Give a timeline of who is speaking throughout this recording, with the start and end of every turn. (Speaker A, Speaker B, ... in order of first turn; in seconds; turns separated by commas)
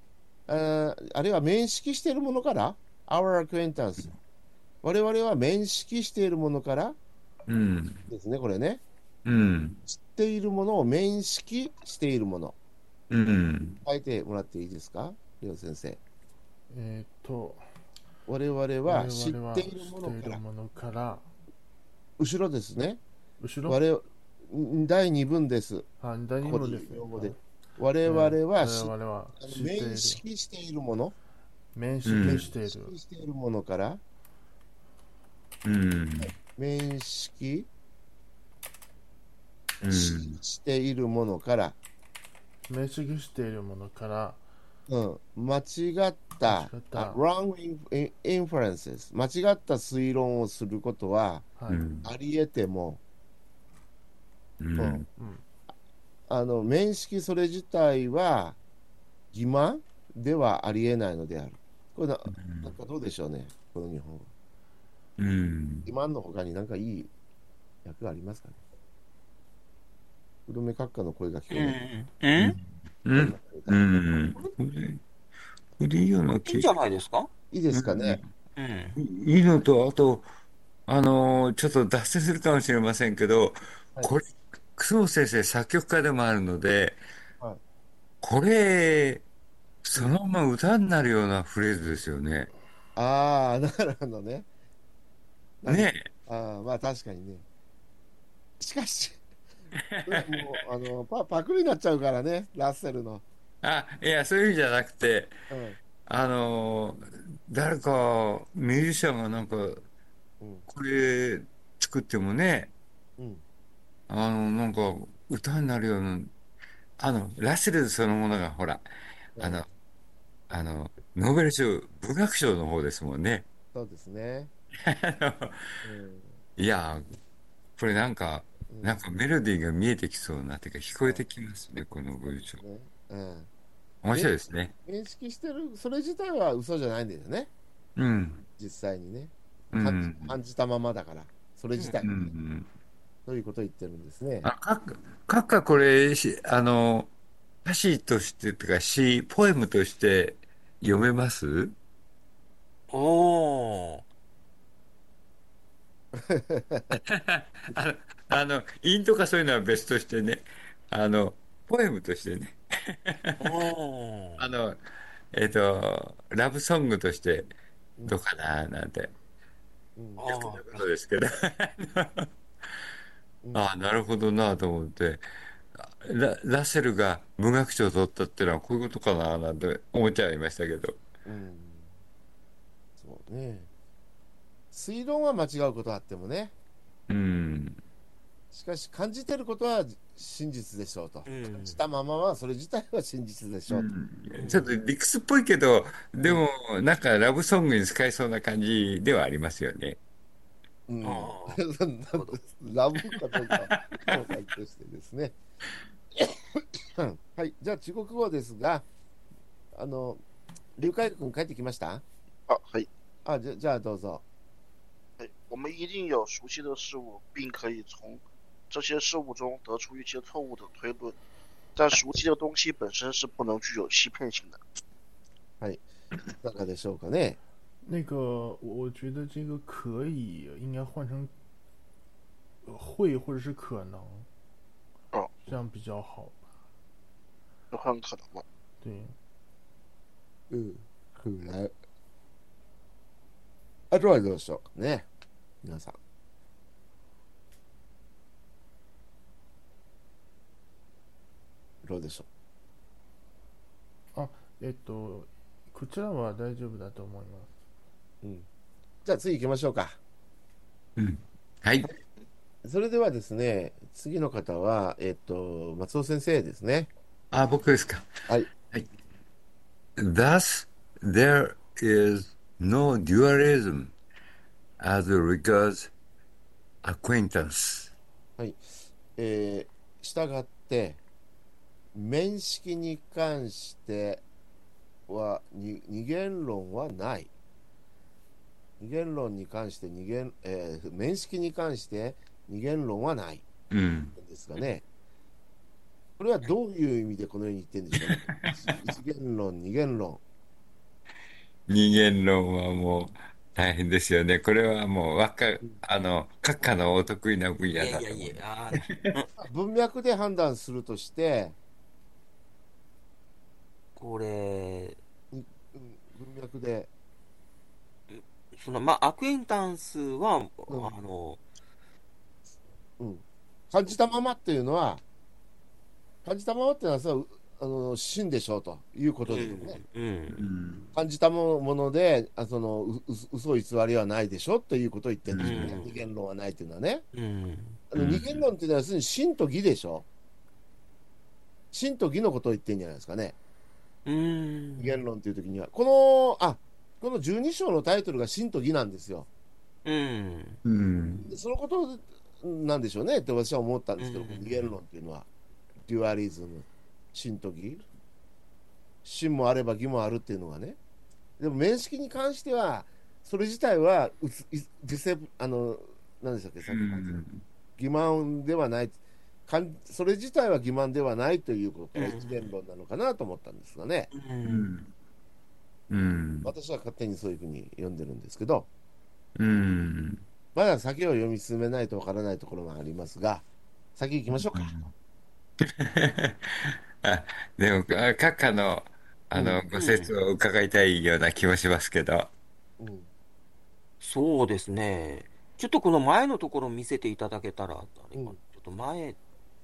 Speaker A: 0.5-4.1, Speaker A: 4.8-7.0, Speaker B: 7.5-8.0, Speaker A: 8.1-8.8, Speaker B: 9.2-9.8, Speaker A: 9.9-12.6, Speaker B: 13.1-13.8, Speaker A: 13.8-16.0, Speaker C: 16.7-17.6, Speaker A: 18.3-20.4, Speaker C: 18.9-21.3, Speaker A: 22.2-23.0, Speaker C: 23.4-23.8, Speaker A: 23.6-25.9, Speaker C: 26.0-27.4, Speaker A: 26.4-31.1, Speaker C: 28.0-30.2, Speaker C: 31.7-32.9, Speaker B: 32.0-32.5, Speaker A: 32.2-34.0, Speaker B: 35.6-36.3, Speaker A: 36.4-37.7, Speaker B: 39.8-40.4, Speaker A: 39.9-41.8, Speaker C: 42.7-44.4, Speaker A: 44.9-51.5, Speaker C: 46.4-47.2, Speaker C: 51.6-51.8, Speaker B: 51.7-52.1, Speaker A: 52.0-53.0, Speaker B: 54.6-55.1, Speaker A: 54.8-55.0, Speaker A: 56.3-58.6, Speaker A: 59.3-64.3, Speaker B: 62.3-62.8, Speaker B: 65.2-65.9, Speaker A: 65.8-67.1, Speaker A: 67.8-68.6, Speaker A: 70.5-71.8, Speaker D: 71.5-72.6, Speaker B: 72.4-75.0, Speaker A: 73.1-73.8, Speaker B: 75.8-76.7, Speaker D: 76.3-77.3, Speaker A: 77.5-78.2, Speaker B: 77.7-78.2, Speaker D: 78.5-79.0, Speaker B: 79.0-80.2, Speaker B: 80.9-87.0, Speaker B: 88.2-89.2, Speaker B: 89.8-92.5, Speaker A: 93.0-94.5, Speaker A: 95.6-97.4, Speaker B: 95.7-96.1, Speaker A: 98.6-99.2, Speaker B: 99.9-100.6, Speaker A: 100.0-103.2, Speaker B: 103.6-105.3, Speaker A: 105.5-105.8, Speaker B: 106.0-109.8, Speaker A: 110.4-110.7, Speaker B: 110.7-112.7, Speaker A: 113.2-113.4, Speaker B: 114.1-116.3, Speaker B: 117.0-118.8, Speaker B: 119.3-119.7, Speaker A: 119.4-119.6, Speaker B: 120.5-123.5, Speaker A: 123.7-124.5, Speaker B: 124.8-125.6, Speaker A: 125.8-126.4, Speaker B: 126.6-127.0, Speaker B: 127.8-132.6, Speaker A: 128.7-129.0, Speaker A: 132.6-133.5, Speaker B: 134.0-134.7, Speaker A: 134.1-137.5, Speaker B: 138.0-138.4, Speaker A: 138.6-142.3, Speaker B: 139.7-140.3, Speaker B: 142.0-142.7, Speaker A: 143.2-144.5, Speaker B: 144.4-147.1, Speaker B: 147.6-151.7, Speaker D: 152.9-154.0, Speaker A: 156.1-157.0, Speaker B: 156.9-163.5, Speaker D: 163.4-164.4, Speaker B: 164.4-164.8, Speaker B: 165.3-167.5, Speaker B: 168.1-169.1, Speaker A: 170.0-170.2, Speaker D: 170.2-170.8, Speaker B: 170.3-172.3, Speaker B: 173.5-175.2, Speaker B: 175.8-181.0, Speaker A: 181.2-181.9, Speaker A: 183.0-183.7, Speaker A: 184.7-186.5, Speaker B: 187.1-187.8, Speaker A: 188.5-193.8, Speaker D: 191.3-191.8, Speaker B: 193.7-200.0, Speaker D: 194.4-194.7, Speaker A: 200.9-205.3, Speaker D: 201.0-201.6, Speaker D: 202.1-202.4, Speaker B: 203.5-204.0, Speaker A: 206.9-208.8, Speaker A: 209.7-210.2, Speaker A: 210.8-212.0, Speaker E: 212.5-212.9, Speaker A: 213.2-214.2, Speaker E: 215.2-221.2, Speaker E: 221.8-224.6, Speaker A: 226.4-227.4, Speaker C: 227.8-231.3, Speaker C: 232.6-234.3, Speaker E: 235.1-235.4, Speaker C: 235.4-236.4, Speaker E: 237.7-238.4, Speaker C: 238.8-239.1, Speaker A: 240.5-241.7, Speaker A: 243.9-245.1, Speaker A: 245.6-246.0, Speaker A: 251.8-252.3, Speaker C: 254.1-257.5, Speaker A: 259.0-260.0, Speaker B: 261.0-261.9, Speaker A: 262.6-266.9, Speaker B: 267.3-268.1, Speaker B: 270.0-273.9, Speaker B: 274.8-275.9, Speaker B: 276.8-277.9, Speaker A: 279.2-281.0, Speaker A: 281.9-284.2, Speaker A: 285.1-287.3, Speaker A: 288.8-293.5, Speaker B: 293.7-294.1, Speaker A: 294.2-294.8, Speaker A: 296.2-300.2, Speaker B: 298.0-298.7, Speaker B: 301.7-309.1, Speaker D: 307.7-309.3, Speaker A: 309.4-311.6, Speaker D: 313.9-315.0, Speaker A: 315.3-316.9, Speaker D: 318.1-321.4, Speaker A: 323.0-325.0, Speaker A: 326.2-329.8, Speaker D: 329.3-330.4, Speaker B: 330.3-330.9, Speaker A: 330.9-337.1, Speaker B: 335.3-335.8, Speaker D: 335.4-336.0, Speaker D: 337.1-337.8, Speaker A: 337.9-340.1, Speaker B: 337.9-338.4, Speaker A: 341.7-343.4, Speaker D: 344.1-345.0, Speaker A: 344.8-349.3, Speaker D: 349.8-350.6, Speaker B: 350.6-351.3, Speaker A: 351.2-355.3, Speaker D: 354.0-354.7, Speaker A: 355.9-357.8, Speaker A: 359.0-360.8, Speaker A: 361.4-367.2, Speaker B: 366.6-367.4, Speaker A: 367.8-374.1, Speaker D: 371.9-372.5, Speaker D: 374.1-374.7, Speaker B: 374.4-374.9, Speaker B: 375.9-376.5, Speaker A: 376.4-378.7, Speaker B: 379.4-380.2, Speaker A: 380.5-384.7, Speaker B: 384.4-384.9, Speaker B: 385.6-392.3, Speaker A: 389.3-389.6, Speaker D: 389.7-390.1, Speaker A: 392.8-393.1, Speaker D: 394.0-399.2